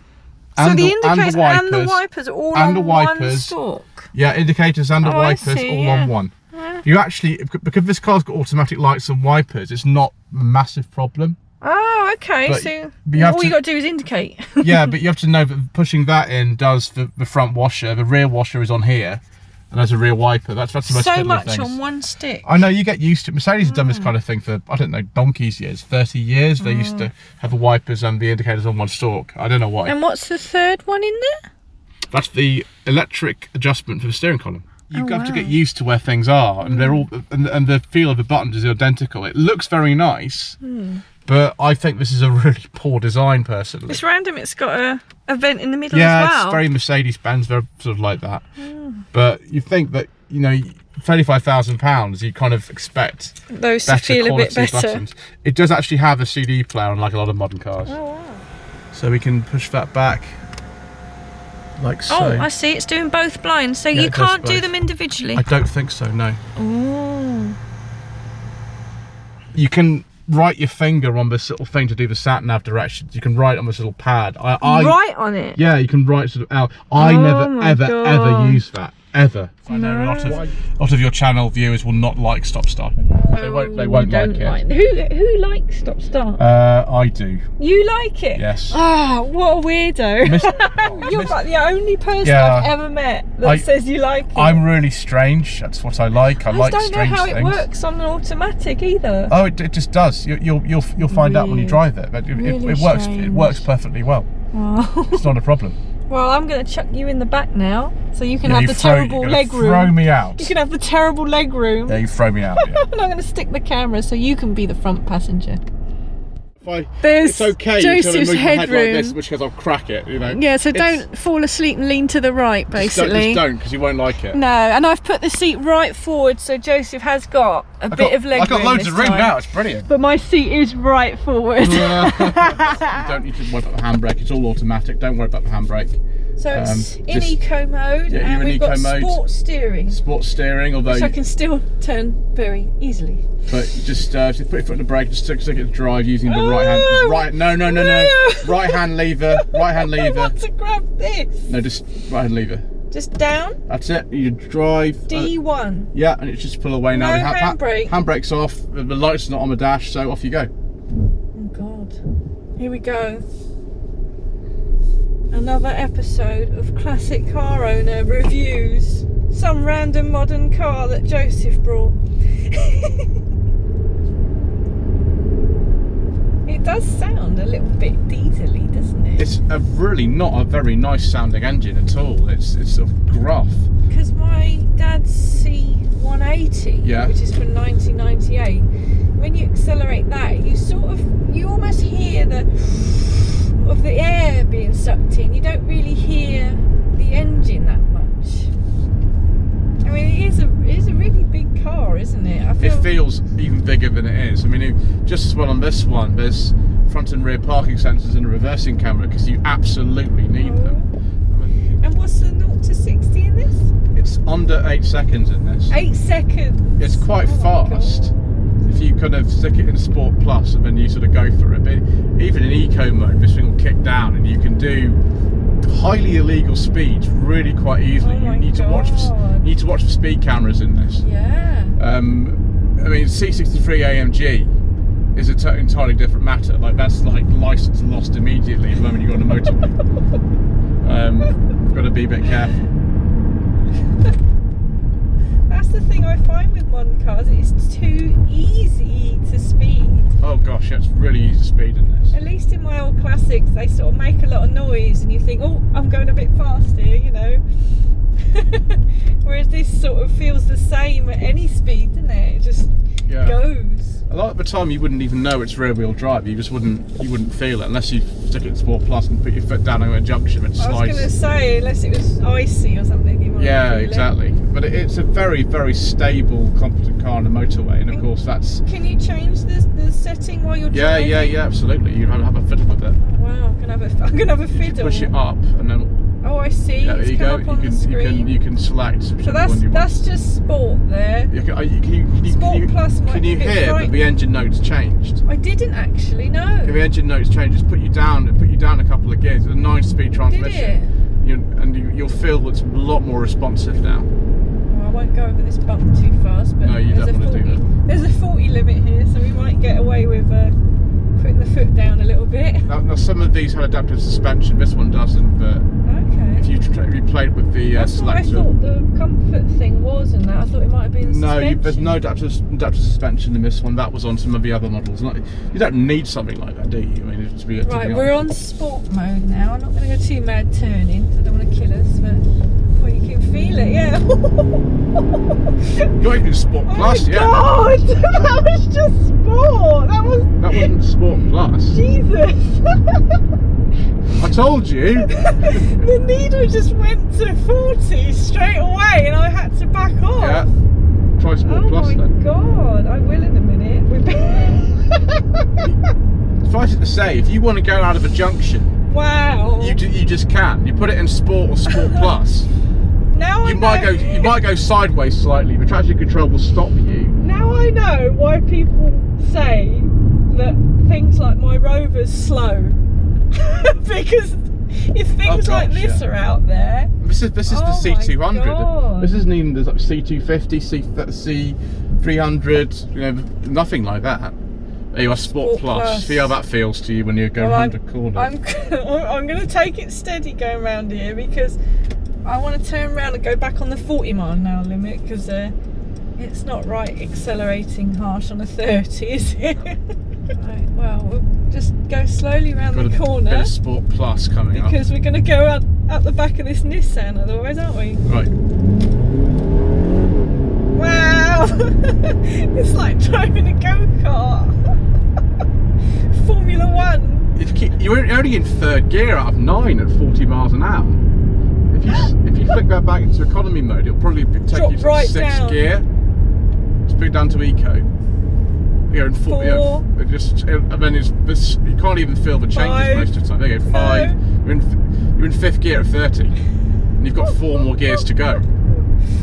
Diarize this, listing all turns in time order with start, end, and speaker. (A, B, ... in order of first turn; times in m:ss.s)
0:00.6-0:04.1 A
0:00.6-0:03.6 B
0:04.1-0:06.3 B
0:05.0-0:06.8 A
0:06.8-0:11.4 B
0:11.6-0:14.9 A
0:12.5-0:13.6 B
0:14.6-0:21.8 B
0:20.8-0:22.5 A
0:22.4-0:29.9 B
0:23.6-0:24.1 A
0:26.6-0:27.1 A
0:29.9-0:31.5 A
0:32.1-0:40.6 B
0:34.9-0:35.6 A
0:36.6-0:37.0 A
0:40.6-0:41.0 A
0:41.3-0:44.0 B
0:43.9-0:46.6 A
0:45.9-0:48.4 B
0:48.6-0:49.0 A
0:49.1-0:57.9 B
0:53.5-0:55.0 A
0:57.9-0:58.5 A
0:58.9-1:00.4 B
1:01.8-1:02.5 B
1:02.1-1:05.4 A
1:03.9-1:04.7 B
1:05.3-1:06.4 B
1:06.6-1:07.6 A
1:09.5-1:15.0 B
1:14.6-1:15.6 A
1:15.6-1:24.6 B
1:17.0-1:18.6 A
1:19.7-1:20.4 A
1:23.0-1:26.4 A
1:26.4-1:27.5 B
1:27.6-1:34.6 A
1:28.4-1:28.8 B
1:30.2-1:31.4 B
1:32.2-1:32.7 B
1:33.4-1:33.7 B
1:34.3-1:37.6 B
1:36.3-1:39.4 A
1:39.3-1:44.3 B
1:41.0-1:43.6 A
1:44.5-1:45.3 A
1:45.1-1:45.8 B
1:46.1-1:52.0 A
1:48.4-1:50.5 B
1:51.9-1:52.8 B
1:52.6-1:55.6 A
1:56.6-2:01.1 B
1:57.0-1:59.2 A
2:00.3-2:03.5 A
2:02.7-2:04.4 B
2:04.3-2:13.1 A
2:07.9-2:09.9 B
2:11.6-2:16.0 B
2:16.4-2:20.0 A
2:16.5-2:17.4 B
2:18.1-2:19.2 B
2:19.9-2:21.2 B
2:20.9-2:23.2 A
2:23.5-2:30.4 B
2:26.3-2:31.5 A
2:31.5-2:32.7 B
2:32.9-2:33.6 A
2:33.7-2:35.4 B
2:35.1-2:35.9 A
2:35.9-2:40.5 B
2:36.9-2:37.9 A
2:41.4-2:42.0 A
2:42.6-2:43.2 A
2:45.3-2:52.0 A
2:52.5-2:53.2 A
2:56.5-2:59.3 A
2:59.2-3:03.7 B
3:03.9-3:18.5 A
3:06.8-3:07.2 B
3:19.8-3:22.9 A
3:22.6-3:31.5 B
3:30.4-3:30.9 A
3:31.8-3:33.7 A
3:33.9-3:35.8 B
3:35.7-3:38.5 A
3:36.8-3:38.1 B
3:38.6-3:45.0 B
3:45.6-3:51.1 B
3:48.0-3:49.5 A
3:51.0-3:51.8 A
3:51.8-3:54.5 B
3:55.1-3:59.8 B
4:00.8-4:02.6 B
4:05.5-4:10.1 A
4:10.2-4:12.2 B
4:12.1-4:17.4 A
4:18.3-4:24.0 A
4:23.1-4:23.4 B
4:24.1-4:31.1 B
4:30.6-4:34.1 A
4:33.4-4:38.6 B
4:38.6-4:41.4 A
4:40.7-4:43.0 B
4:43.0-4:45.1 A
4:44.5-4:45.9 B
4:46.2-4:48.4 A
4:46.8-4:50.0 B
4:49.2-4:51.3 A
4:51.3-4:55.2 B
4:52.2-4:53.9 A
4:55.3-4:56.8 A
4:56.6-5:04.1 B
5:00.2-5:00.9 A
5:04.7-5:10.6 A
5:06.6-5:07.7 B
5:11.2-5:12.7 A
5:12.7-5:15.7 B
5:15.8-5:16.5 A
5:16.3-5:18.5 B
5:17.7-5:22.0 A
5:21.0-5:28.4 B
5:27.6-5:35.2 A
5:35.7-5:35.9 A
5:36.0-5:37.4 B
5:36.7-5:40.7 A
5:38.0-5:38.5 B
5:40.4-5:41.8 B
5:41.7-5:43.2 A
5:44.2-5:45.8 B
5:45.1-5:50.6 A
5:50.2-5:50.5 B
5:51.2-5:52.1 B
5:51.4-5:55.2 A
5:56.4-5:58.7 B
5:58.9-5:59.8 A
5:59.6-6:02.5 B
6:01.7-6:02.1 A
6:03.1-6:04.2 A
6:03.4-6:07.2 B
6:07.2-6:12.8 A
6:13.3-6:16.9 A
6:15.2-6:16.0 B
6:17.0-6:24.4 B
6:17.5-6:19.2 A
6:24.9-6:28.4 B
6:25.1-6:26.4 A
6:27.4-6:31.6 A
6:32.2-6:35.5 A
6:36.2-6:39.8 A
6:40.3-6:43.5 A
6:42.7-6:44.8 B
6:44.5-6:48.0 A
6:48.0-6:48.3 B
6:50.7-6:54.6 A
6:56.1-6:57.3 A
6:57.4-7:01.1 B
7:01.7-7:05.9 B
7:04.5-7:05.6 A
7:06.9-7:07.9 B
7:08.9-7:16.4 B
7:09.3-7:09.8 A
7:12.5-7:13.1 A
7:13.7-7:14.2 A
7:17.0-7:18.4 B
7:17.2-7:18.4 A